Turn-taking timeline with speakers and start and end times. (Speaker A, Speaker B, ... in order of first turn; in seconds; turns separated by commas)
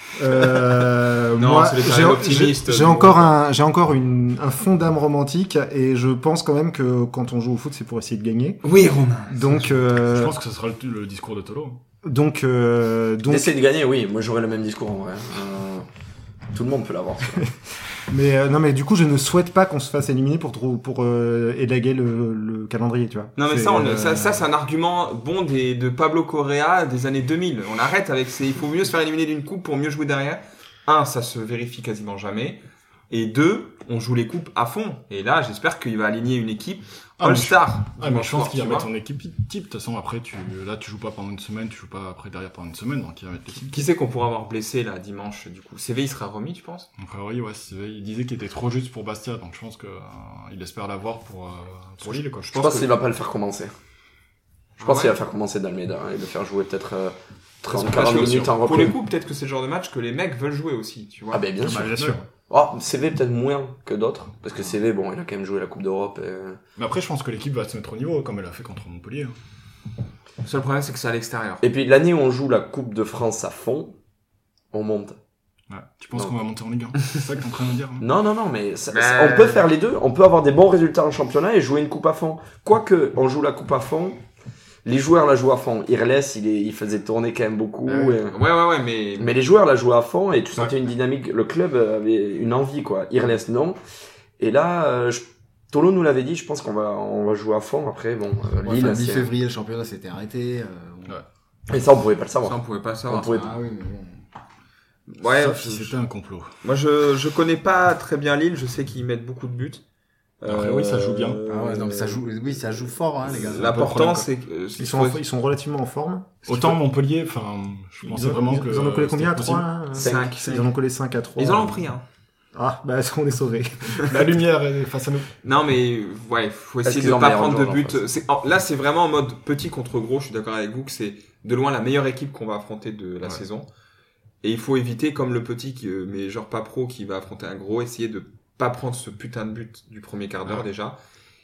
Speaker A: 0.2-8.6, Speaker B: 1.4-3.3, Speaker B: 8.6-9.8, Speaker A: 9.3-10.3, Speaker C: 10.1-11.8, Speaker A: 12.0-13.5, Speaker D: 13.3-15.9, Speaker D: 16.5-17.5, Speaker A: 18.1-24.4, Speaker B: 23.4-38.9, Speaker C: 37.2-43.9, Speaker B: 43.6-46.9, Speaker C: 47.0-52.9, Speaker D: 52.5-53.7, Speaker B: 54.8-55.1, Speaker D: 54.8-59.0, Speaker C: 57.7-58.6, Speaker B: 57.8-61.4, Speaker D: 61.3-66.6, Speaker C: 61.6-62.2, Speaker C: 66.8-69.4, Speaker B: 70.4-71.6, Speaker D: 71.6-74.0, Speaker D: 74.7-75.2, Speaker C: 75.7-78.1, Speaker D: 78.0-84.2, Speaker B: 78.9-79.7, Speaker D: 84.8-88.4, Speaker B: 87.9-89.3, Speaker D: 89.2-93.8, Speaker D: 94.4-99.3, Speaker E: 98.6-101.2, Speaker D: 101.7-103.5, Speaker B: 102.4-103.3, Speaker E: 103.2-104.2, Speaker B: 105.1-106.0, Speaker C: 105.3-106.5, Speaker B: 106.6-109.8, Speaker B: 110.4-112.2, Speaker C: 110.5-111.4, Speaker E: 111.5-114.0, Speaker B: 113.3-115.2, Speaker C: 113.3-114.3, Speaker A: 114.8-116.8, Speaker C: 116.5-119.7, Speaker A: 118.0-121.8, Speaker B: 119.9-120.7, Speaker D: 120.0-120.6, Speaker B: 121.4-122.0, Speaker A: 122.5-124.1, Speaker C: 124.0-125.3, Speaker B: 125.4-133.7, Speaker D: 126.8-128.0, Speaker B: 134.4-141.0